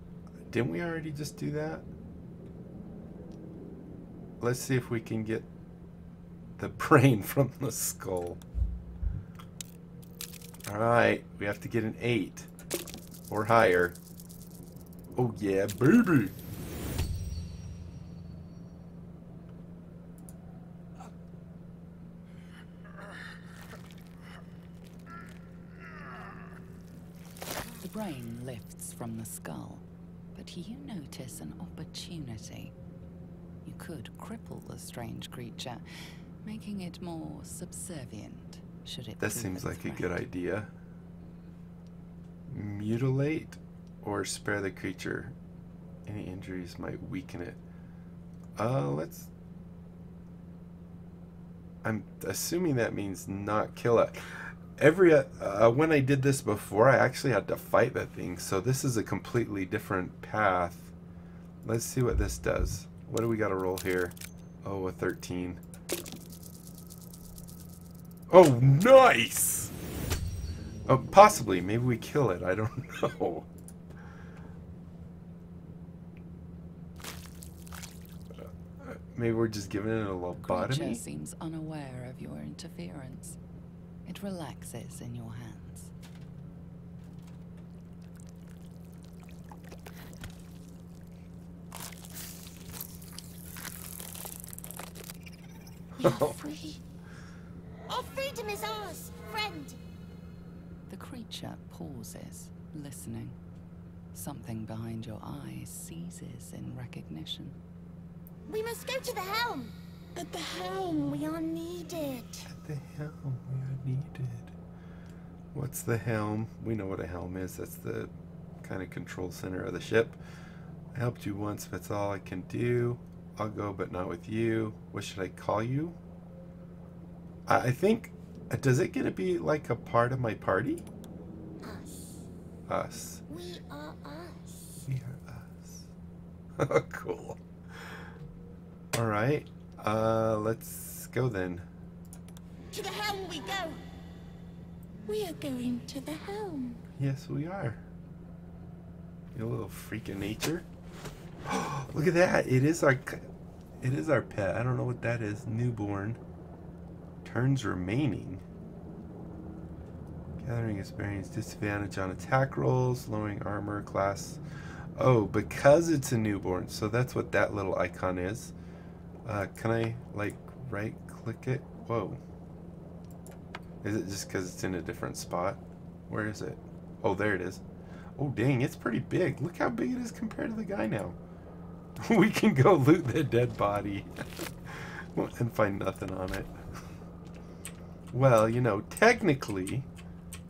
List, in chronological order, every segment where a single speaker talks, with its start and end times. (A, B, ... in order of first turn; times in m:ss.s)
0:00.5-0:01.9 A
0:04.4-0:05.5 A
0:06.6-0:08.4 A
0:10.7-0:12.5 A
0:13.3-0:14.0 A
0:15.2-0:16.4 A
0:27.8-0:32.8 B
0:33.6-0:35.8 B
0:36.4-0:40.2 B
0:39.2-0:40.7 A
0:42.5-0:45.4 A
0:46.0-0:47.6 A
0:48.6-0:49.3 A
0:51.8-1:00.9 A
1:01.6-1:05.6 A
1:08.3-1:09.7 A
1:10.9-1:13.5 A
1:18.4-1:21.0 A
1:20.4-1:23.4 B
1:24.1-1:25.9 B
1:36.0-1:36.4 A
1:36.0-1:36.8 C
1:37.9-1:39.8 C
1:40.9-1:43.4 B
1:44.1-1:47.6 B
1:48.5-1:52.5 C
1:52.5-1:54.6 A
1:55.5-2:00.2 A
2:00.9-2:06.0 A
2:07.5-2:10.9 A
2:11.6-2:12.0 C
2:12.7-2:13.2 A
2:13.3-2:14.8 C
2:14.9-2:15.9 A
2:16.6-2:17.4 A
2:18.9-2:21.7 A
2:22.7-2:23.8 C
2:25.1-2:26.8 C
2:27.0-2:27.8 A
2:29.3-2:30.7 A
2:31.4-2:33.3 A
2:33.8-2:36.2 A
2:37.2-2:38.4 A
2:40.4-2:44.4 A
2:45.0-2:48.5 A
2:49.2-2:52.2 A
2:53.8-2:57.6 A
2:58.2-3:01.2 A
3:02.0-3:06.5 A
3:08.1-3:09.9 A